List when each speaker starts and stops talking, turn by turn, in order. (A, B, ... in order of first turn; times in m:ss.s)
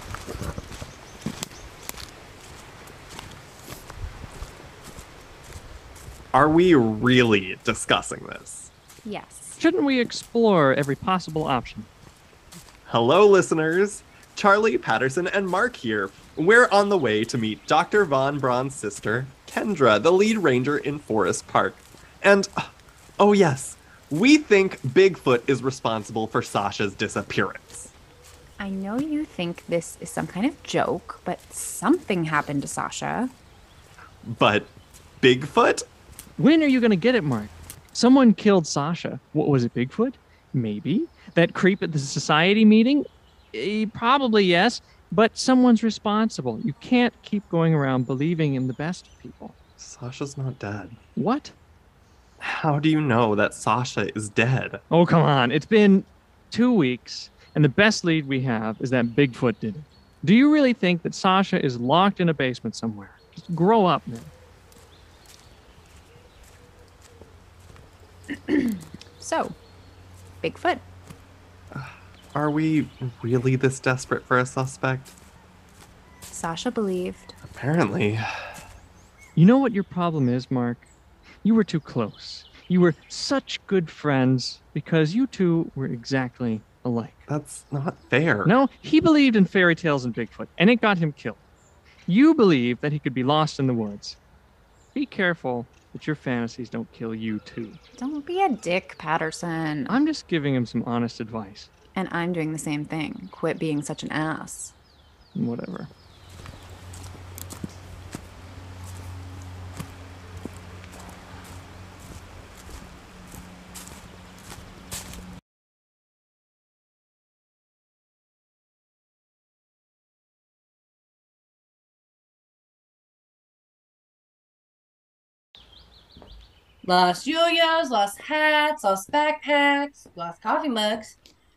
0:06.3-0:08.7 A
0:09.0-0:09.6 B
0:09.6-0:11.9 C
0:12.9-0:27.9 A
0:28.6-0:33.3 B
0:34.2-0:35.8 A
0:36.4-0:49.5 C
0:49.8-0:51.0 A
0:51.2-0:51.5 C
0:52.4-0:54.8 A
0:54.9-1:04.3 C
1:08.3-1:09.6 B
1:10.4-1:10.8 B
1:11.7-1:15.1 A
1:16.3-1:17.3 B
1:17.4-1:18.2 A
1:19.3-1:20.9 C
1:21.4-1:27.2 C
1:27.3-1:28.6 A
1:28.4-1:31.4 C
1:32.1-1:34.2 C
1:34.9-1:37.8 C
1:38.0-1:40.0 B
1:39.9-1:41.7 C
1:42.0-1:44.7 B
1:45.3-1:45.9 C
2:06.8-2:11.2 D